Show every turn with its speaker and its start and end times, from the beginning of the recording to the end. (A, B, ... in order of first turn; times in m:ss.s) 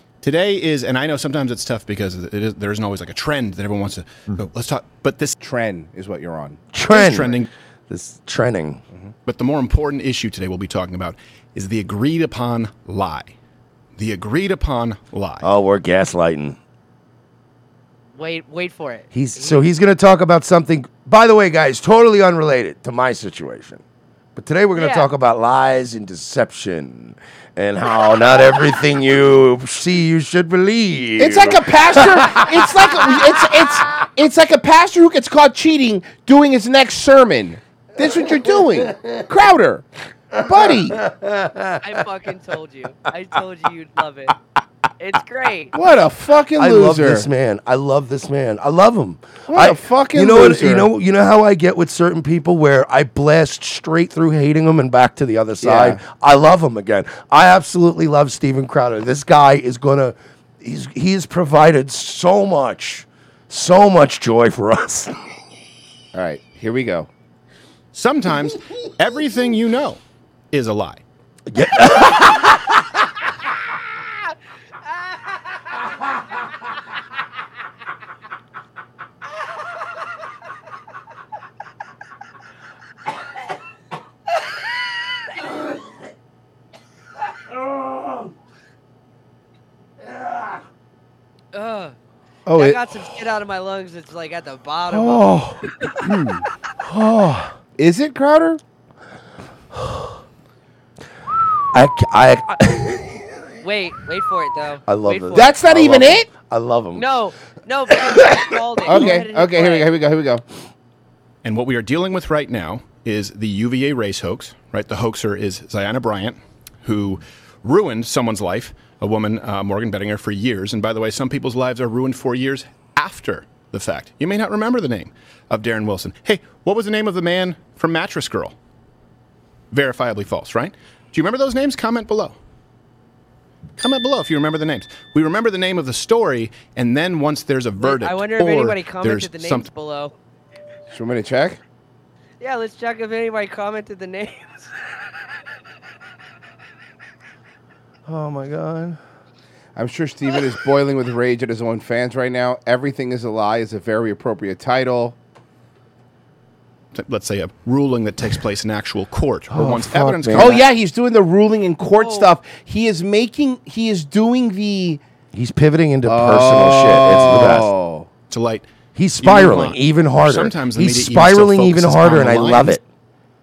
0:00.2-0:05.3 A
0:05.4-0:06.6 B
0:06.7-0:08.8 C
0:06.9-0:07.5 A
0:09.2-0:13.3 A
0:14.0-0:15.5 A
0:15.4-0:16.6 C
0:18.1-0:19.6 D
0:19.1-0:23.8 C
0:24.4-0:33.4 C
0:24.7-0:25.1 D
0:31.2-0:41.0 B
0:40.6-0:41.8 C
0:41.8-0:44.4 D
0:45.0-0:45.7 D
0:45.7-0:47.3 B
0:46.6-1:05.1 C
0:49.5-0:50.9 B
0:55.6-0:56.0 B
1:06.1-1:07.1 B
1:07.9-1:10.0 A
1:10.5-1:11.0 A
1:11.5-1:12.7 C
1:31.5-1:32.0 D
1:32.4-1:32.8 B
1:32.5-1:35.3 D
1:34.9-1:36.4 B
1:36.8-1:37.5 C
1:37.8-1:38.6 B
1:39.7-1:40.1 C
1:41.7-1:43.2 C
1:43.6-1:45.6 D
1:44.9-1:47.1 C
1:45.3-1:46.3 B
1:46.9-1:49.9 D
1:48.2-1:49.2 C
1:48.8-1:50.4 B
1:51.4-2:08.5 A
2:09.7-2:12.4 A
2:13.8-2:19.7 A
2:17.8-2:20.1 D
2:20.9-2:21.6 B
2:22.4-2:24.7 D
2:28.0-2:29.0 C
2:29.8-2:35.2 B
2:36.9-2:40.6 A
2:39.5-2:40.6 C
2:40.3-2:45.0 B
2:41.9-2:42.3 D
2:45.3-2:47.7 C
2:46.0-2:48.1 B
2:48.3-2:48.7 A
2:48.9-2:52.8 C
2:49.2-2:52.8 A